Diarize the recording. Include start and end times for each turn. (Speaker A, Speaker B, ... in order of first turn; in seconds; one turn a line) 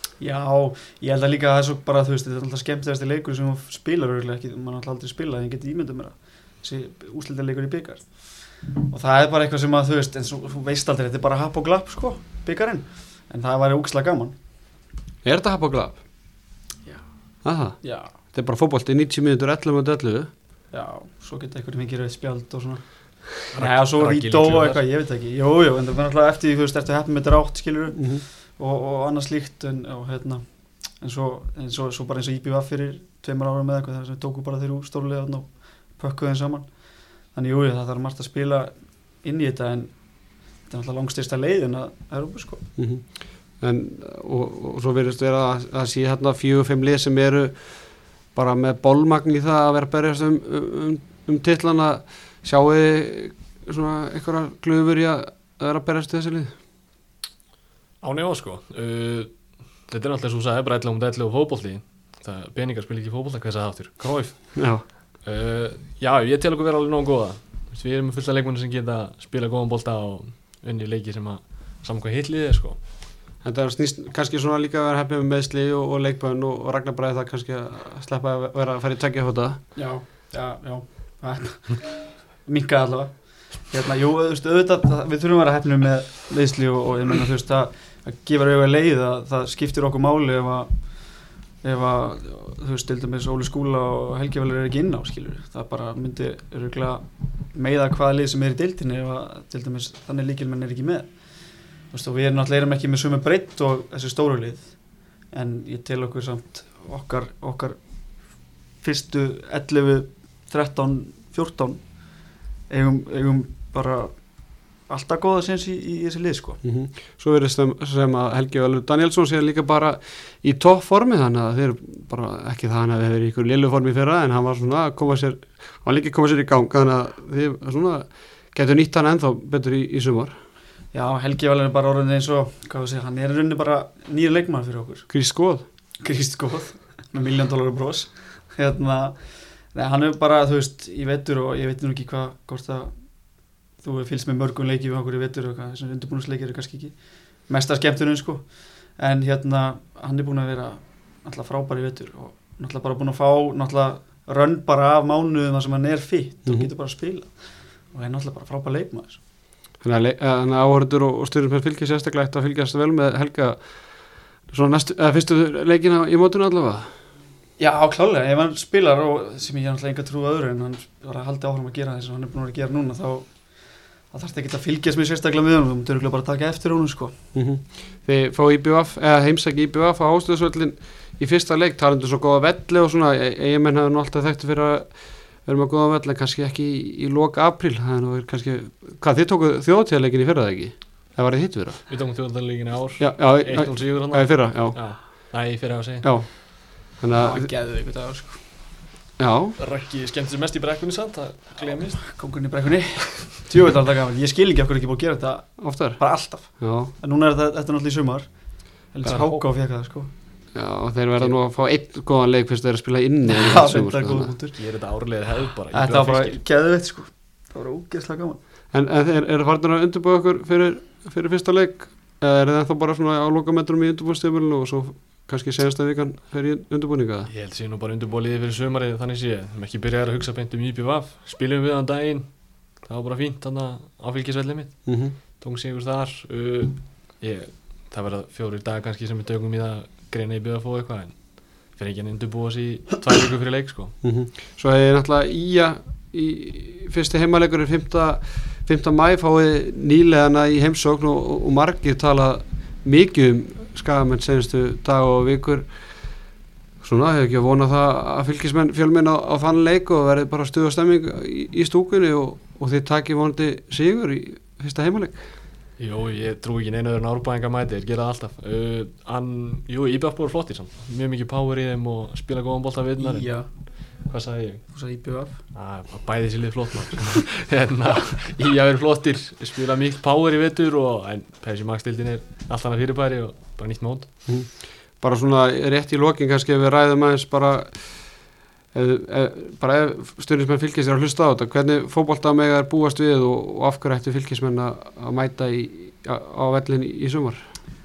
Speaker A: 0.2-14.3
Speaker B: 15.2-16.0
Speaker A: 16.8-18.1
Speaker B: 17.4-20.3
Speaker A: 20.7-42.6
Speaker C: 23.5-24.8
Speaker B: 27.9-28.2
Speaker B: 42.8-56.5
Speaker C: 58.0-72.8
Speaker B: 64.5-64.8
Speaker B: 73.4-79.7
Speaker A: 79.7-116.6
Speaker B: 116.6-130.3
Speaker A: 130.9-135.1
Speaker B: 135.1-135.6
Speaker A: 136.0-159.2
Speaker B: 159.8-166.9
Speaker A: 167.6-177.2
Speaker B: 177.3-191.9
Speaker C: 191.9-196.1
Speaker B: 193.0-195.3
Speaker B: 196.0-197.5
Speaker A: 197.1-198.4
Speaker B: 199.2-199.6
Speaker C: 199.6-202.3
Speaker A: 202.0-210.1
Speaker B: 205.6-206.9
Speaker B: 209.0-209.4
Speaker B: 210.5-214.3
Speaker A: 213.2-214.6
Speaker C: 214.5-216.4
Speaker A: 215.7-218.4
Speaker B: 218.7-227.3
Speaker C: 227.3-243.9
Speaker B: 234.8-235.2
Speaker B: 244.0-256.2
Speaker B: 256.8-265.3
Speaker C: 265.8-274.8
Speaker A: 273.0-273.5
Speaker A: 274.7-275.4
Speaker C: 275.5-284.1
Speaker B: 284.2-297.4